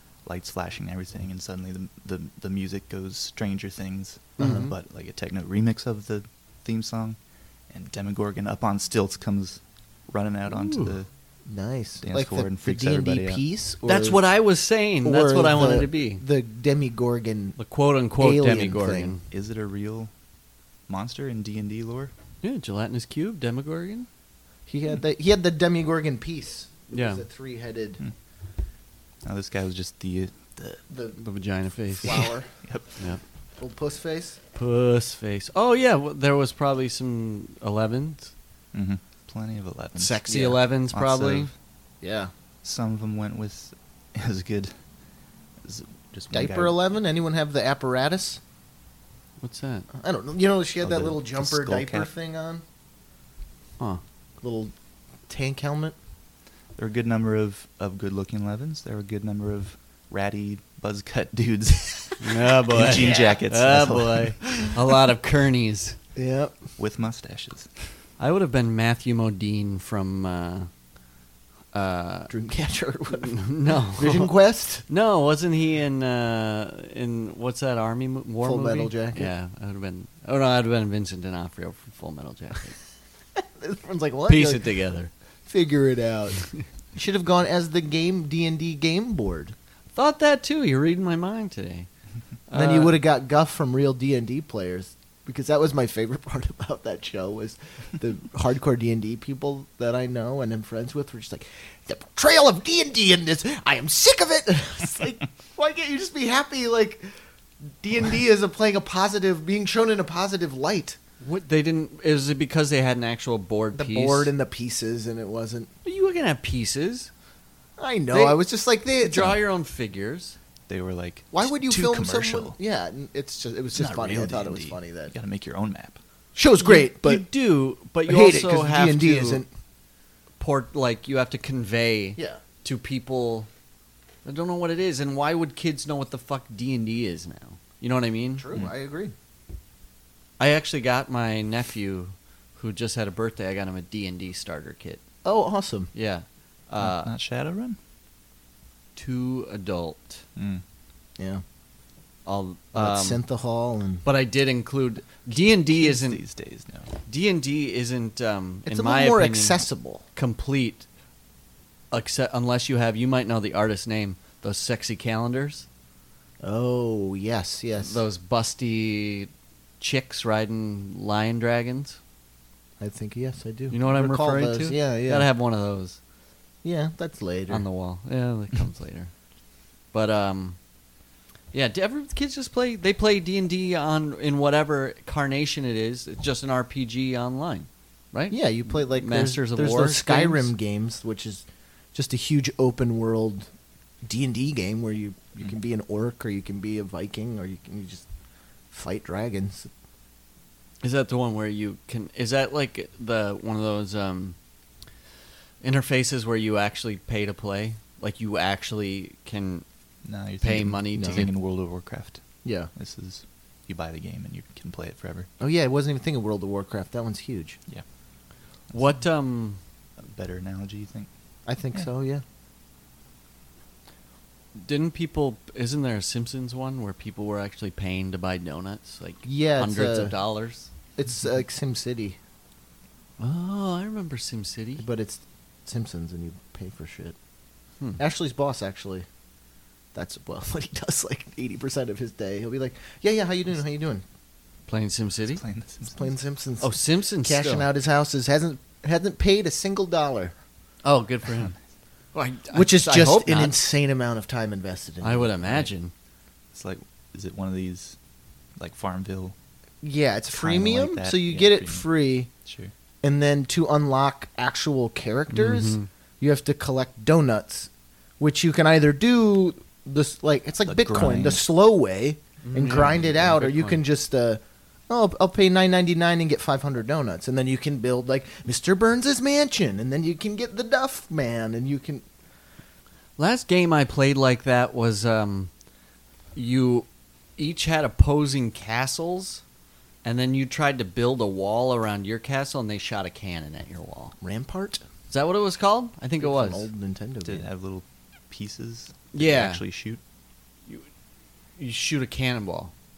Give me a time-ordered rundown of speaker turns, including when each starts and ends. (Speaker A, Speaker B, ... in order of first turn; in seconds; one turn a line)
Speaker A: 0.2-7.2
Speaker B: 4.4-4.6
Speaker C: 4.4-4.7
Speaker A: 7.7-11.1
Speaker B: 10.5-10.9
Speaker C: 11.5-14.2
Speaker A: 12.0-13.4
Speaker B: 13.8-16.2
Speaker C: 15.0-17.6
Speaker B: 17.6-19.2
Speaker C: 18.2-19.1
Speaker A: 19.3-20.1
Speaker A: 20.9-22.1
Speaker B: 22.4-24.1
Speaker C: 24.7-28.0
Speaker B: 26.9-27.2
Speaker A: 29.2-30.8
Speaker C: 30.9-31.2
Speaker B: 31.2-32.3
Speaker C: 32.0-32.5
Speaker A: 32.6-32.9
Speaker C: 33.6-34.4
Speaker B: 34.5-38.3
Speaker A: 38.7-41.5
Speaker B: 40.0-41.5
Speaker C: 40.3-40.6
Speaker C: 42.0-42.3
Speaker A: 42.6-44.8
Speaker A: 45.6-46.8
Speaker C: 46.3-48.4
Speaker B: 49.4-49.9
Speaker C: 49.9-52.6
Speaker A: 50.8-52.1
Speaker C: 54.4-54.7
Speaker C: 55.3-56.0
Speaker A: 56.8-64.8
Speaker B: 62.2-66.0
Speaker C: 62.7-63.4
Speaker C: 66.2-66.6
Speaker A: 66.8-67.9
Speaker B: 68.2-70.7
Speaker B: 71.7-72.3
Speaker C: 72.3-74.8
Speaker B: 73.1-74.3
Speaker B: 74.9-82.8
Speaker C: 78.4-79.3
Speaker C: 83.4-84.7
Speaker B: 84.3-85.1
Speaker C: 85.5-89.5
Speaker B: 89.9-91.9
Speaker B: 92.5-93.0
Speaker C: 92.5-107.1
Speaker C: 107.8-111.0
Speaker B: 111.2-114.3
Speaker C: 113.7-115.7
Speaker B: 115.8-117.1
Speaker C: 117.8-119.4
Speaker B: 118.1-118.4
Speaker B: 119.0-120.3
Speaker A: 120.7-122.6
Speaker C: 121.3-125.1
Speaker A: 123.7-126.0
Speaker C: 126.3-127.2
Speaker B: 126.6-129.4
Speaker C: 128.0-129.5
Speaker B: 130.4-133.5
Speaker B: 134.2-138.5
Speaker C: 138.4-139.1
Speaker B: 140.4-145.0
Speaker C: 145.2-145.9
Speaker B: 145.9-147.1
Speaker A: 146.8-147.8
Speaker B: 148.9-150.2
Speaker A: 150.3-150.6
Speaker C: 151.2-151.4
Speaker B: 152.2-153.2
Speaker C: 152.7-154.0
Speaker B: 154.0-156.2
Speaker A: 155.7-156.9
Speaker B: 157.1-159.6
Speaker C: 158.7-160.0
Speaker B: 160.1-160.8
Speaker B: 161.9-165.7
Speaker C: 166.4-168.0
Speaker B: 167.8-172.0
Speaker C: 172.8-175.3
Speaker B: 173.7-176.0
Speaker C: 176.6-177.6
Speaker B: 177.5-179.1
Speaker B: 179.9-180.6
Speaker B: 181.5-190.5
Speaker C: 188.3-193.5
Speaker C: 194.0-198.0
Speaker C: 198.7-199.7
Speaker B: 200.8-204.3
Speaker B: 205.6-209.6
Speaker A: 210.0-215.3
Speaker B: 210.4-211.3
Speaker C: 210.9-211.3
Speaker C: 212.4-212.7
Speaker C: 215.4-217.6
Speaker A: 218.7-219.0
Speaker B: 218.7-219.6
Speaker A: 220.0-221.1
Speaker C: 221.4-222.2
Speaker B: 224.5-230.7
Speaker C: 229.2-230.1
Speaker C: 231.0-232.2
Speaker B: 233.2-234.8
Speaker C: 234.8-237.2
Speaker C: 238.0-239.1
Speaker C: 239.9-244.0
Speaker B: 244.7-245.4
Speaker A: 245.4-246.1
Speaker C: 245.9-250.3
Speaker B: 246.6-247.7
Speaker B: 250.8-251.5
Speaker B: 252.1-253.5
Speaker C: 252.5-255.3
Speaker B: 255.0-255.9
Speaker A: 256.5-257.9
Speaker A: 258.6-259.3
Speaker C: 259.8-262.3
Speaker A: 260.3-261.9
Speaker A: 262.4-262.7
Speaker C: 263.0-282.0
Speaker B: 265.3-265.9
Speaker A: 270.6-271.4
Speaker B: 272.4-273.8
Speaker B: 283.2-285.5
Speaker B: 286.3-289.4
Speaker B: 290.0-294.1
Speaker C: 294.2-294.8
Speaker B: 295.1-296.7
Speaker C: 296.2-297.5
Speaker A: 297.2-300.0
Speaker B: 299.1-299.6
Speaker B: 301.6-302.7